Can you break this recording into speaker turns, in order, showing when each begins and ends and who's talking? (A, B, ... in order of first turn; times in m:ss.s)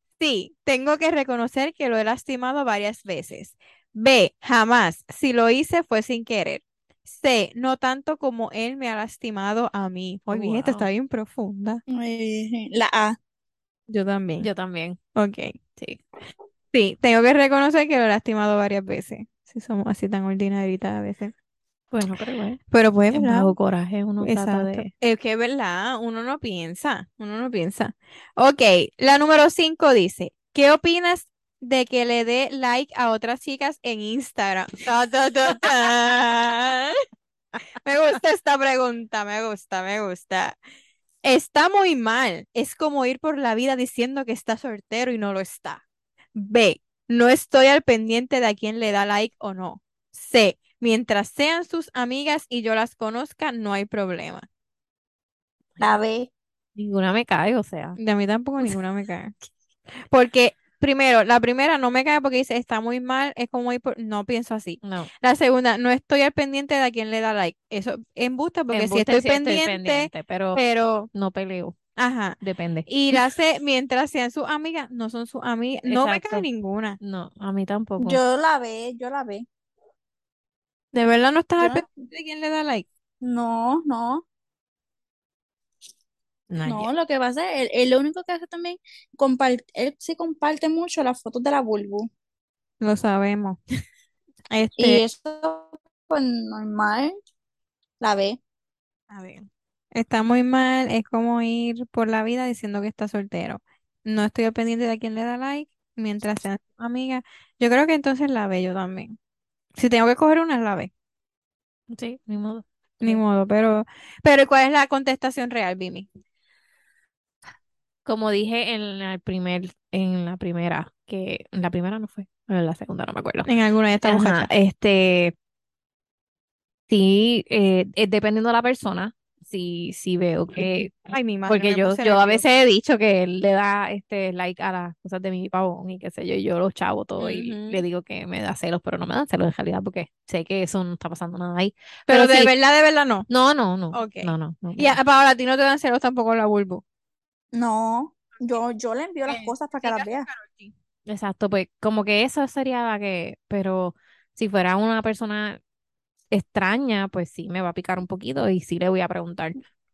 0:00.2-0:11.8 A
0:10.3-0:10.9 B
0:11.9-0:13.2 C
0:13.9-0:14.5 A
0:14.4-0:15.0 B
0:15.2-0:15.5 A
0:15.8-0:16.0 B
0:16.7-0:21.3 A
0:21.9-0:22.6 B
0:22.7-0:23.5 A
0:23.1-0:24.9 B
0:24.2-0:37.0 A
0:37.8-0:40.6 A
0:41.2-0:45.8 A
0:46.3-0:54.4 A
0:55.8-0:56.3 C
0:56.7-0:58.0 B
0:58.0-0:59.3 A
1:00.1-1:11.1 A
1:04.8-1:05.1 B
1:08.7-1:10.6 B
1:11.1-1:11.8 B
1:12.0-1:17.0 A
1:12.4-1:12.9 B
1:15.9-1:16.4 B
1:17.0-1:18.2 B
1:18.0-1:19.4 C
1:20.9-1:22.8 A
1:21.6-1:21.8 C
1:23.2-1:24.2 C
1:26.5-1:26.9 B
1:26.6-1:32.1 C
1:32.8-1:33.6 A
1:34.5-1:35.0 A
1:34.8-1:37.1 C
1:38.0-1:38.4 C
1:39.1-1:49.2 A
1:49.8-1:50.9 A
1:51.9-1:53.2 B
1:53.0-1:56.1 A
1:58.0-2:03.5 B
2:03.4-2:04.5 A
2:04.0-2:05.3 B
2:06.9-2:22.5 B
2:10.6-2:12.4 A
2:17.2-2:17.8 A
2:22.1-2:23.3 A
2:23.3-2:25.0 B
2:23.9-2:26.8 A
2:27.5-2:30.3 C
2:29.2-2:30.7 A
2:31.1-2:35.6 B
2:36.3-2:39.6 B